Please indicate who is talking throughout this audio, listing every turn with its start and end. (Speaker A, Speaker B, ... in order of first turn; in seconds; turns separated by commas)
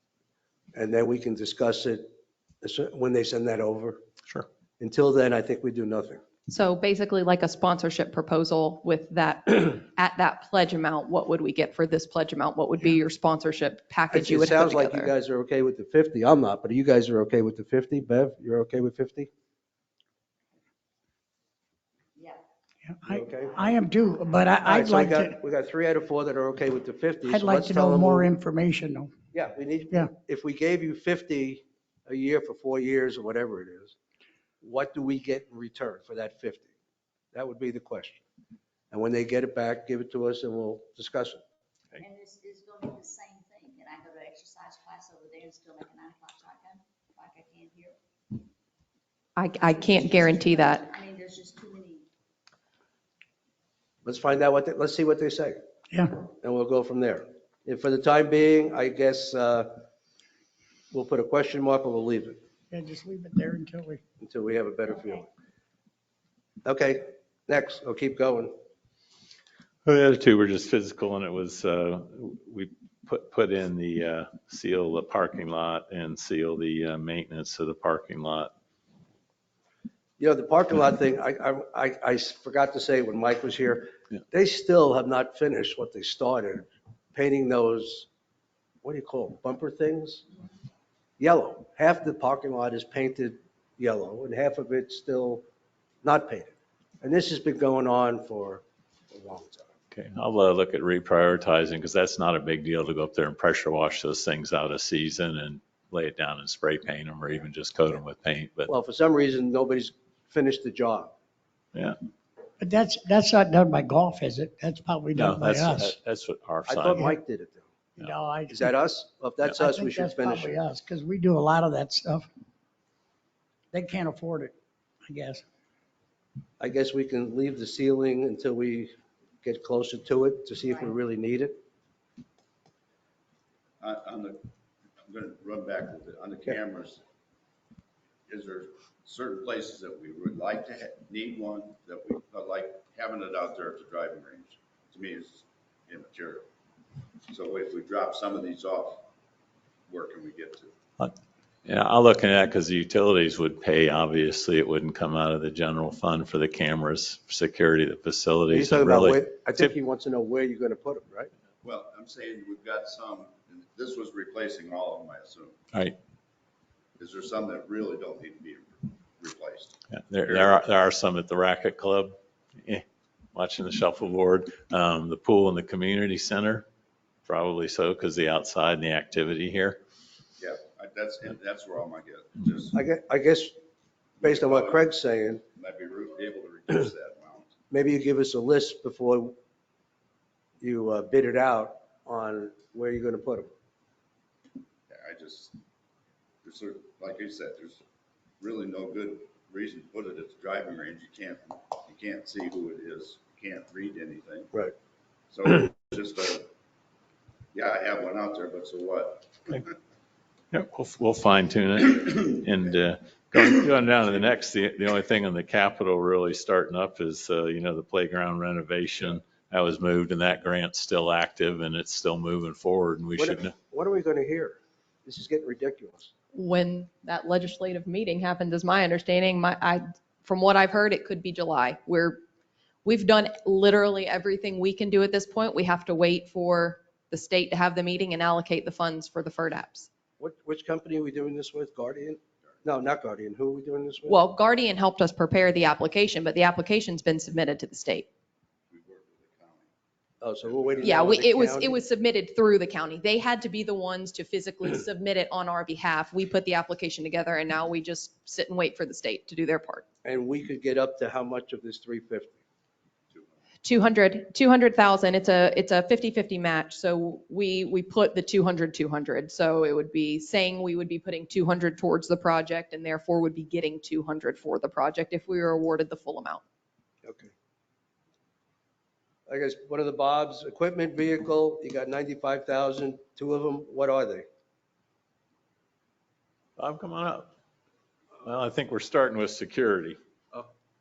Speaker A: 0.7-2.1, Speaker A: 2.6-4.0, Speaker A: 4.8-6.2, Speaker B: 6.5-15.1, Speaker A: 14.1-19.3, Speaker C: 22.1-22.4, Speaker D: 22.8-25.4, Speaker A: 23.1-23.6, Speaker C: 23.2-24.4, Speaker A: 24.6-28.3, Speaker D: 27.2-29.1, Speaker A: 29.3-34.0, Speaker A: 34.6-36.7, Speaker A: 37.3-38.2, Speaker A: 38.9-41.4, Speaker C: 42.0-48.0, Speaker B: 49.4-50.9, Speaker C: 49.8-52.0, Speaker A: 54.0-55.6, Speaker D: 55.9-56.1, Speaker A: 56.2-59.8, Speaker A: 60.9-62.4, Speaker D: 62.7-64.0, Speaker A: 64.2-65.3, Speaker A: 66.6-68.5, Speaker E: 69.8-78.5, Speaker A: 80.2-88.1, Speaker A: 88.8-90.2, Speaker A: 91.2-95.4, Speaker A: 96.0-99.7, Speaker E: 99.9-108.7, Speaker A: 108.7-111.1, Speaker D: 112.6-115.9, Speaker E: 115.1-117.1, Speaker A: 116.7-117.7, Speaker D: 118.0-118.8, Speaker A: 118.5-120.6, Speaker D: 119.5-122.3, Speaker D: 123.7-124.5, Speaker D: 125.1-125.4, Speaker A: 126.6-128.9, Speaker A: 129.4-131.6, Speaker F: 133.8-134.5, Speaker F: 135.1-137.0, Speaker F: 138.3-146.5, Speaker F: 147.3-149.1, Speaker F: 149.9-150.7, Speaker E: 151.7-159.7, Speaker A: 158.5-161.3, Speaker F: 161.6-165.6, Speaker F: 167.0-170.6, Speaker E: 169.9-176.7, Speaker E: 177.2-179.8, Speaker F: 180.4-182.8, Speaker A: 182.7-183.5, Speaker F: 184.2-184.9, Speaker A: 184.2-185.4, Speaker F: 185.5-187.5, Speaker A: 187.7-189.3, Speaker A: 190.6-193.5, Speaker F: 194.9-195.6, Speaker F: 196.4-197.8, Speaker F: 198.4-204.5, Speaker F: 205.3-206.5, Speaker F: 207.5-209.7, Speaker E: 210.5-223.5, Speaker A: 223.2-226.1, Speaker B: 226.3-232.2, Speaker B: 232.8-239.9, Speaker A: 240.2-244.2, Speaker B: 244.1-248.1, Speaker F: 248.7-249.7, Speaker A: 250.2-251.8, Speaker F: 250.4-251.2, Speaker B: 250.8-259.9, Speaker A: 260.0-262.4, Speaker B: 263.6-276.4, Speaker A: 277.0-277.3, Speaker A: 279.3-284.2, Speaker E: 286.6-287.3, Speaker E: 288.2-290.0